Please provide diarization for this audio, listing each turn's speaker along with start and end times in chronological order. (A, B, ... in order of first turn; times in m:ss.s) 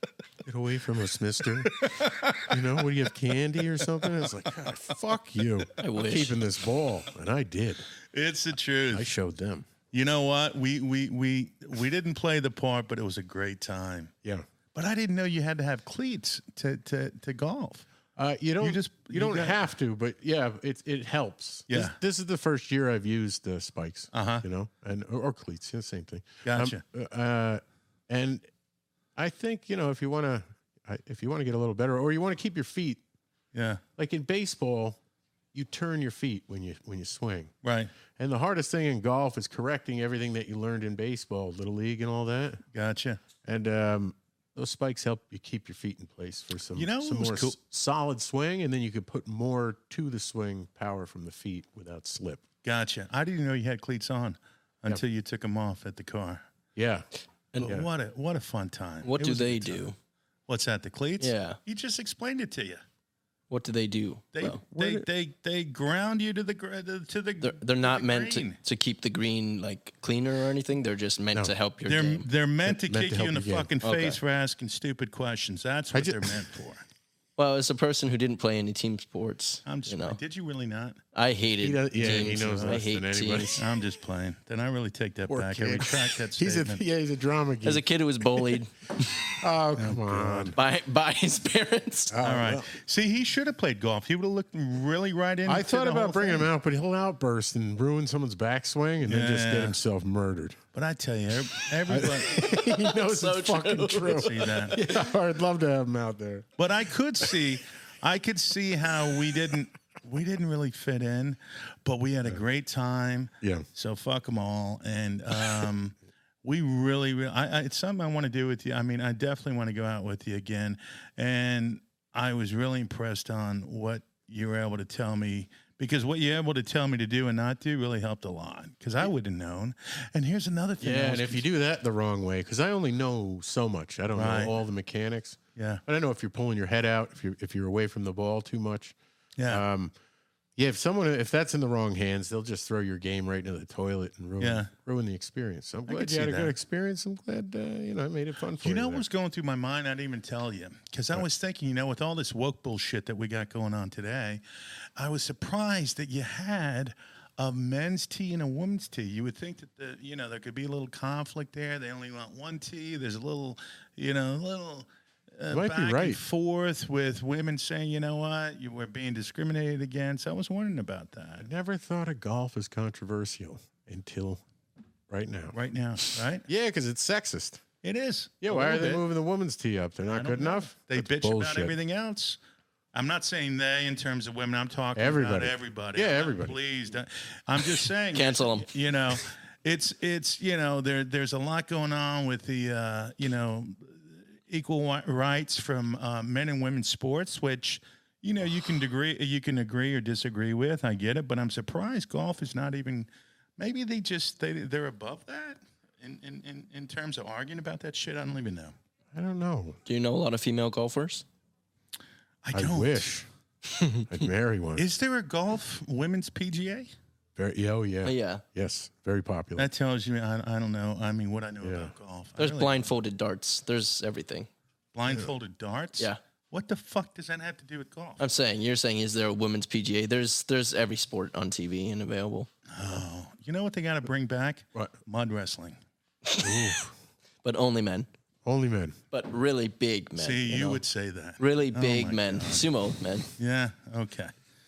0:00.4-0:07.9 A
0:01.8-0:02.9 B
0:03.8-0:04.7 B
0:05.8-0:06.4 C
0:08.1-0:09.1 B
0:08.9-0:09.7 A
0:09.9-0:14.1 B
0:14.7-0:17.9 B
0:18.2-0:28.5 A
0:18.6-0:19.6 B
0:21.7-0:22.0 B
0:24.1-0:24.4 B
0:26.4-0:26.8 B
0:29.2-0:33.0 A
0:33.5-0:33.8 B
0:34.0-0:35.0 A
0:35.5-0:37.5 A
0:37.6-0:37.9 B
0:38.2-0:42.6 A
0:42.7-0:43.2 B
0:43.4-0:52.4 A
0:46.8-0:47.6 B
0:52.6-0:56.5 B
0:56.8-0:57.1 A
0:57.6-0:59.9 B
0:59.0-1:00.0 C
1:00.5-1:02.8 B
1:01.2-1:01.6 C
1:03.5-1:04.6 C
1:04.3-1:08.6 B
1:04.8-1:05.0 A
1:07.4-1:12.3 C
1:11.9-1:16.8 B
1:12.6-1:13.7 A
1:13.8-1:14.2 C
1:15.9-1:16.5 A
1:17.4-1:20.2 C
1:19.7-1:21.0 B
1:21.1-1:23.6 C
1:21.6-1:23.6 A
1:22.0-1:22.8 B
1:23.6-1:26.8 B
1:25.3-1:28.6 A
1:27.6-1:29.2 C
1:29.1-1:30.6 A
1:29.8-1:30.6 B
1:30.6-1:32.1 C
1:32.1-1:32.7 A
1:32.2-1:36.5 B
1:35.5-1:40.6 A
1:39.0-1:39.8 B
1:40.7-1:42.5 B
1:41.9-1:46.5 A
1:42.3-1:45.0 C
1:44.0-1:44.8 B
1:46.6-2:11.4 B
2:10.8-2:19.0 A
2:14.2-2:14.6 B
2:15.6-2:15.8 B
2:19.4-2:19.6 B
2:19.5-2:19.9 A
2:20.6-2:29.0 A
2:24.4-2:24.7 B
2:25.9-2:26.6 B
2:28.6-2:51.5 B
2:45.5-2:46.2 A
2:51.4-2:54.4 A
2:55.1-2:57.6 A
2:55.5-2:56.5 B
2:57.8-2:59.0 B
2:58.4-3:01.8 A
3:00.1-3:02.4 B
3:02.9-3:28.8 B
3:05.0-3:06.6 A
3:08.1-3:08.7 C
3:29.1-3:29.8 A
3:29.9-3:31.2 C
3:32.4-3:33.1 B
3:32.5-3:33.3 A
3:33.7-3:34.1 C
3:34.1-3:34.9 A
3:34.8-3:36.9 B
3:37.4-3:39.7 A
3:38.0-3:38.4 C
3:39.6-3:42.9 B
3:41.6-3:41.9 A
3:42.4-3:44.5 C
3:44.9-3:48.2 B
3:48.2-3:52.5 C
3:52.7-3:55.8 B
3:56.3-3:56.8 C
3:56.4-3:56.9 A
3:57.4-3:58.1 C
3:58.4-3:59.0 A
3:59.1-4:00.8 C
4:00.2-4:02.7 B
4:01.4-4:03.3 C
4:03.4-4:04.3 B